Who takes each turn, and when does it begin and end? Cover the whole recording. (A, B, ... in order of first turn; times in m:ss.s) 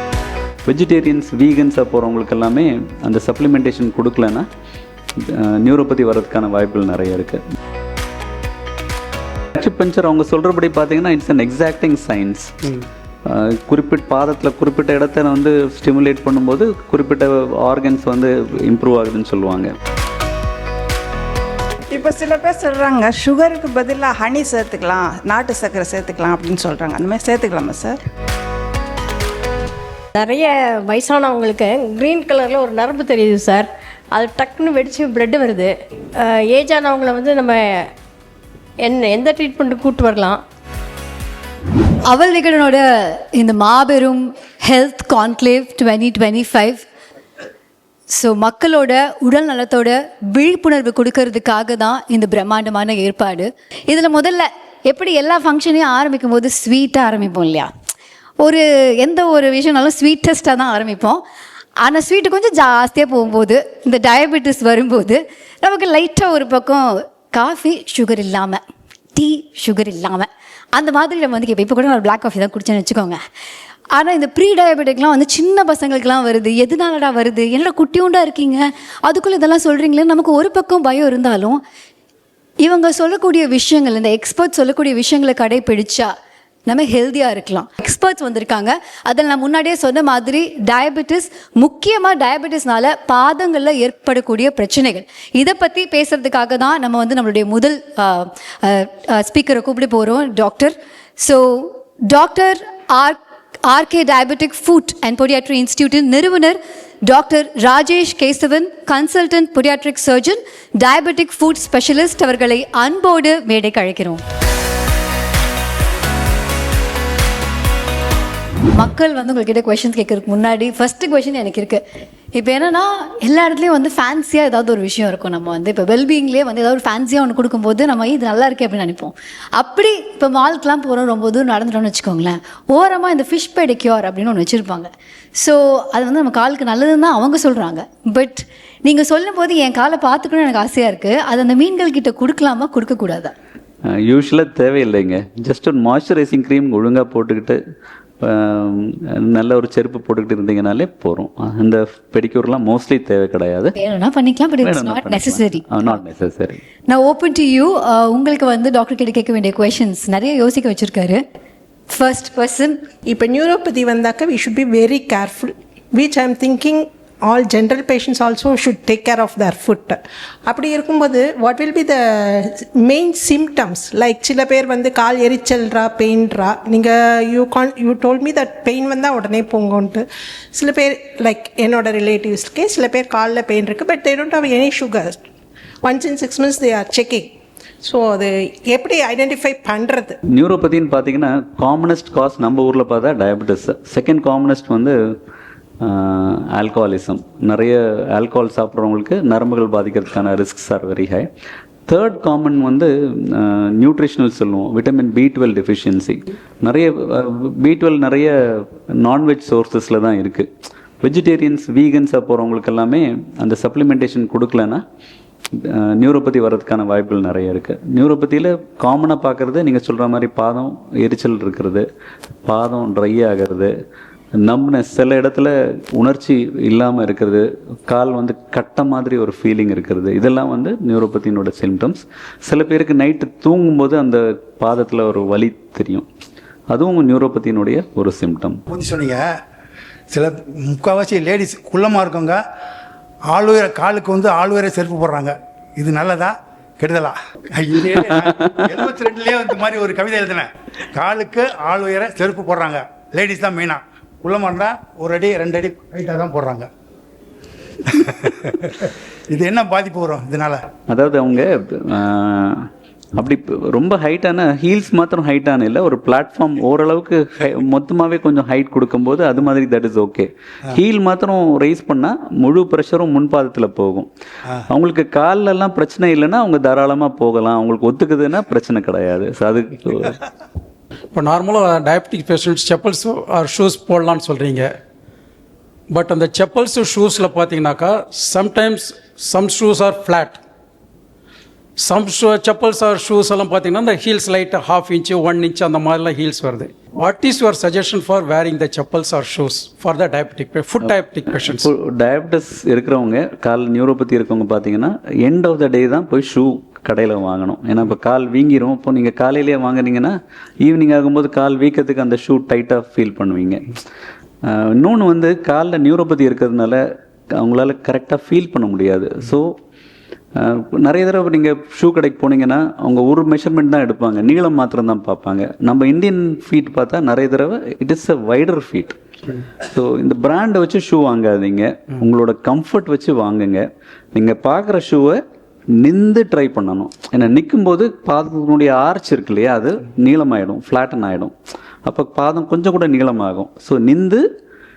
0:00.6-0:04.5 A
0:05.2-0:07.4 A
0:09.6-0:12.5 A
0:13.2-0:19.7 A
0:21.9-0:28.0 B
0:30.2-0:37.8 C
0:38.8-0:40.4 C
0:42.0-0:46.8 D
0:48.2-0:57.7 D
0:58.4-1:01.2 D
1:01.8-1:08.6 D
1:09.1-1:13.2 D
1:14.0-1:21.6 D
1:22.6-1:26.1 D
1:26.6-1:54.2 D
1:58.6-2:01.8 D
2:02.3-2:23.3 D
2:23.9-2:27.6 A
2:28.2-2:33.7 A
2:33.8-2:36.0 D
2:34.6-2:36.6 A
2:36.9-2:41.2 D
2:41.9-2:42.8 D
2:43.1-3:05.2 E
3:05.8-3:07.3 E
3:07.8-3:10.2 E
3:10.3-3:15.0 A
3:15.8-3:21.3 A
3:21.9-3:30.5 A
3:31.0-3:34.8 A
3:35.6-3:41.8 A
3:42.4-3:43.7 A
3:44.4-3:56.1 A
3:56.7-3:58.6 A
3:58.7-3:59.3 F
4:00.1-4:02.4 F
4:03.3-4:16.7 F
4:17.9-4:20.6 F
4:20.9-4:34.1 A
4:34.7-4:40.2 A
4:41.1-4:44.7 G
4:45.9-4:50.4 G
4:51.8-5:01.7 G
5:00.8-5:13.7 A
5:14.4-5:16.8 A
5:17.3-5:19.5 A
5:20.4-5:29.0 A
5:29.6-5:35.2 A
5:35.8-5:41.3 A
5:41.8-5:44.2 A